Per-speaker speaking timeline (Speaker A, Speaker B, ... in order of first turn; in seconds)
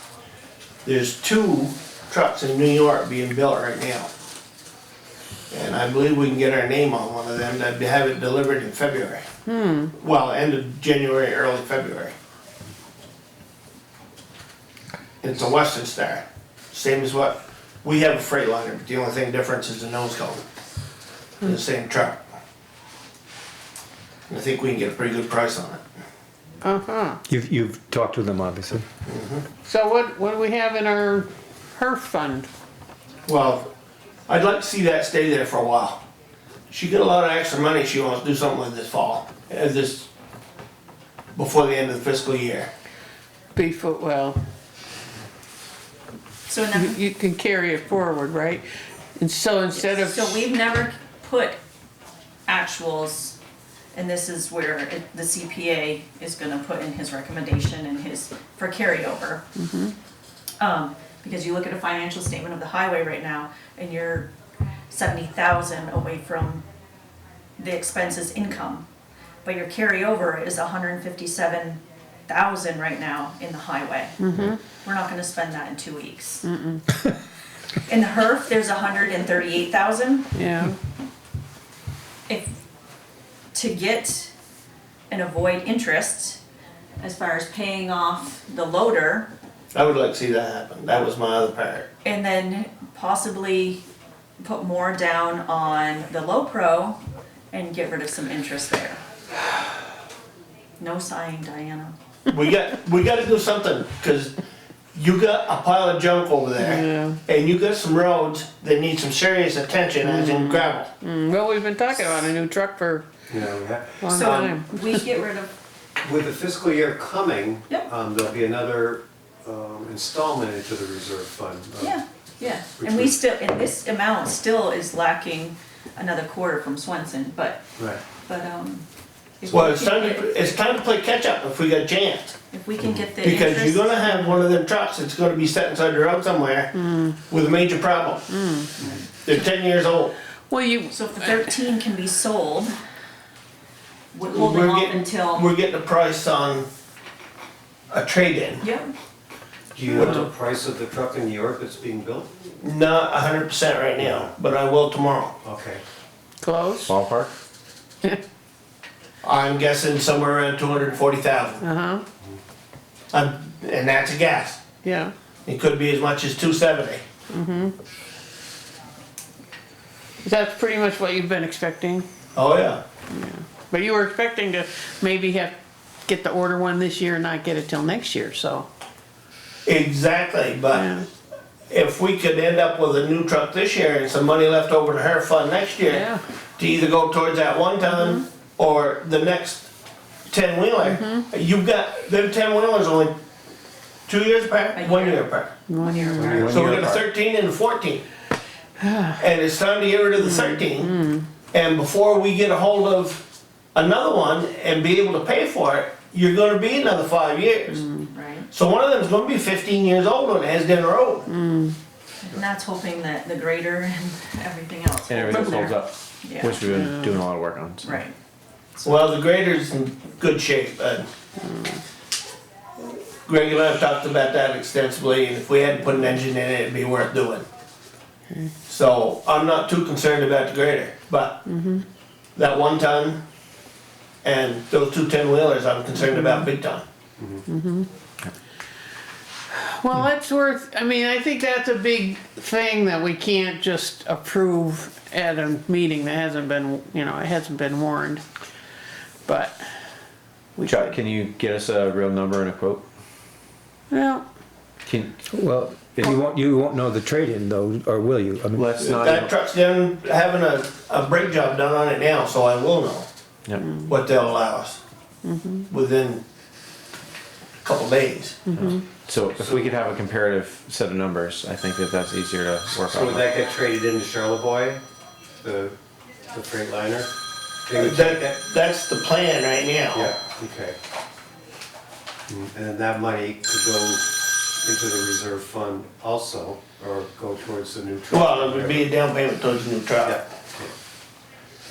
Speaker A: 0.8-4.1, 5.5-9.2, 9.9-12.1, 15.2-20.4, 21.4-22.2, 24.3-25.8, 29.1-29.4, 33.2-33.7, 34.3-36.0, 36.7-40.1, 41.4-42.7, 89.7-91.9, 102.3-104.3, 104.9-110.9, 129.5-132.3, 133.2-138.3, 139.2-140.1, 144.3-146.7, 147.9-148.6, 149.9-150.2, 152.6-155.3, 159.2-161.6, 163.1-164.6, 165.4-167.0, 172.3-172.8, 179.7-180.9, 181.7-189.7, 190.3-193.2, 194.1-195.5, 196.5-198.0, 199.1-201.0, 201.5-207.9, 208.5-211.3, 218.8-221.1, 223.2-227.4, 228.7-231.4, 232.3-233.2, 234.2-236.8, 258.8-263.1, 263.9-264.8, 265.7-266.2, 267.6-268.4, 277.7-280.1, 288.1-290.2
Speaker B: 9.4-9.9, 26.6-27.2, 29.6-32.5, 43.5-44.4, 46.7-50.4, 59.5-59.9, 74.2-74.6, 76.4-76.8, 80.3-80.8, 106.6-107.2, 110.0-113.1, 114.0-115.2, 136.7-137.1, 140.5-141.4, 156.4-156.9, 161.6-162.0, 164.8-165.1, 167.3-167.8, 170.2-172.1, 173.1-178.7, 180.7-181.1, 185.8-186.2, 195.7-196.4, 198.8-199.2, 200.2-201.3, 211.3-211.8, 216.7-217.2, 221.4-221.8, 231.4-231.8, 236.1-236.5, 237.4-237.9, 239.5-248.2, 249.2-249.7, 250.6-250.9, 253.9-254.2, 265.2-265.7, 268.5-268.8
Speaker C: 27.3-28.9, 255.2-258.7
Speaker D: 46.5-47.0, 49.7-51.6, 52.5-53.4, 53.9-59.4, 60.6-64.3, 64.9-66.6, 67.6-68.8, 69.4-74.2, 74.7-76.4, 77.8-80.3, 83.5-84.3, 85.1-86.4, 87.0-89.3, 92.0-93.8, 94.4-97.0, 97.5-99.0, 100.8-102.0, 114.1-115.5, 121.8-127.6, 128.2-128.8, 129.4-130.6, 132.5-134.4, 138.8-139.4, 140.9-142.7, 144.1-145.5, 148.6-148.9, 194.7-196.7, 208.1-208.5, 212.2-216.7, 217.8-218.1
Speaker E: 113.3-114.5, 116.0-123.2, 149.7-152.3, 154.0-154.3, 155.4-155.8, 237.2-237.4, 272.9-274.8, 275.4-275.7, 276.3-277.1, 277.7-278.4, 279.9-280.8, 282.3-288.9, 290.0-290.7
Speaker F: 156.8-157.3, 196.2-197.0, 215.1-218.0, 250.6-252.8, 254.8-255.2, 258.5-259.3, 268.5-273.3